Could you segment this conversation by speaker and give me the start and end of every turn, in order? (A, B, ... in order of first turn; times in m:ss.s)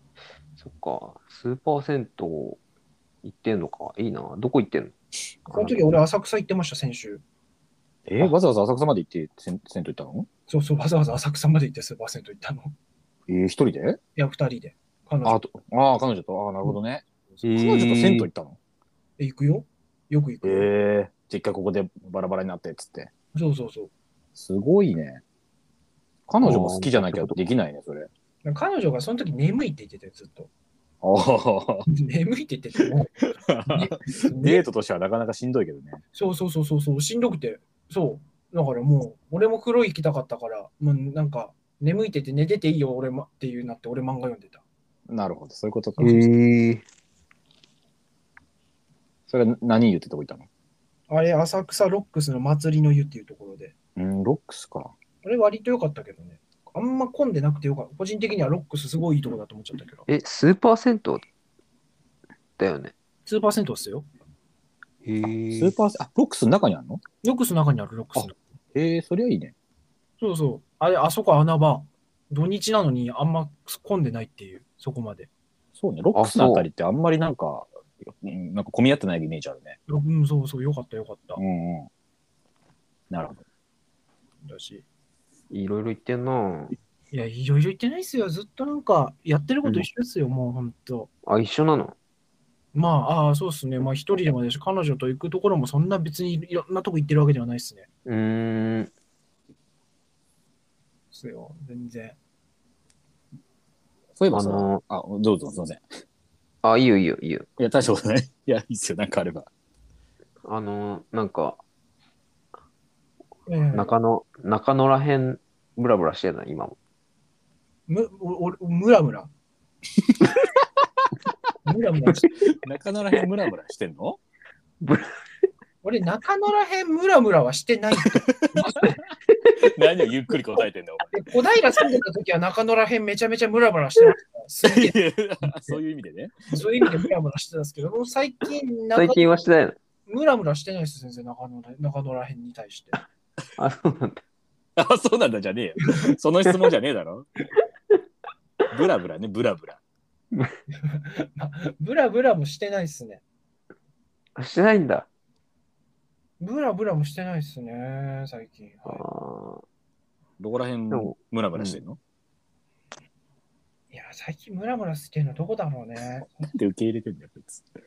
0:00.6-0:02.6 A
0:03.2-0:04.9 A
0:05.5-0:05.8 A
0:05.5-0:07.2 B
0:08.0-0:10.3 C
0:10.5-0:12.7 B
0:13.3-0:14.0 C
0:14.2-0:15.4 B
0:15.2-0:18.6 C
0:17.4-0:18.3 A
0:19.2-0:20.7 B
0:20.4-0:23.1 C
0:23.3-0:23.9 B
0:24.3-0:25.2 C
0:26.3-0:28.1 C
0:26.4-0:27.4 A
0:28.4-0:30.5 B
0:31.0-0:31.9 C
0:31.9-0:34.6 B
0:33.5-0:36.0 C
0:36.1-0:44.6 B
0:45.1-0:46.3 C
0:46.0-0:46.8 A
0:49.3-0:50.5 C
0:51.1-0:53.7 B
0:54.0-0:54.9 C
0:55.2-1:00.1 B
1:00.1-1:01.2 A
1:02.6-1:02.9 A
1:03.2-1:04.0 B
1:05.0-1:05.7 A
1:05.5-1:07.0 C
1:07.2-1:08.4 B
1:08.2-1:09.5 C
1:10.2-1:15.3 B
1:15.7-1:19.8 C
1:16.1-1:16.7 A
1:19.9-1:21.4 B
1:21.4-1:21.9 C
1:23.1-1:23.4 C
1:24.4-1:24.8 B
1:25.5-1:26.7 A
1:27.1-1:31.1 B
1:31.2-1:31.9 A
1:32.7-1:37.9 B
1:38.0-1:38.9 A
1:41.1-1:42.2 B
1:44.2-1:45.8 C
1:44.3-1:44.8 A
1:46.6-1:47.4 A
1:47.6-1:49.5 C
1:50.4-1:51.6 A
1:53.5-1:53.9 B
1:53.7-1:56.7 A
1:57.9-1:59.3 B
2:01.6-2:02.3 B
2:02.6-2:04.2 C
2:04.8-2:05.1 A
2:05.8-2:09.0 B
2:08.4-2:08.8 C
2:09.6-2:11.1 C
2:11.1-2:15.8 B
2:14.6-2:16.3 C
2:16.5-2:19.3 B
2:18.9-2:19.8 A
2:20.1-2:23.0 B
2:23.6-2:24.2 A
2:24.8-2:27.3 C
2:28.7-2:29.8 C
2:30.8-2:33.2 B
2:34.4-2:35.1 A
2:36.4-2:39.0 B
2:38.9-2:39.6 A
2:40.4-2:42.0 C
2:40.9-2:41.8 A
2:43.9-2:46.5 B
2:46.4-2:47.7 C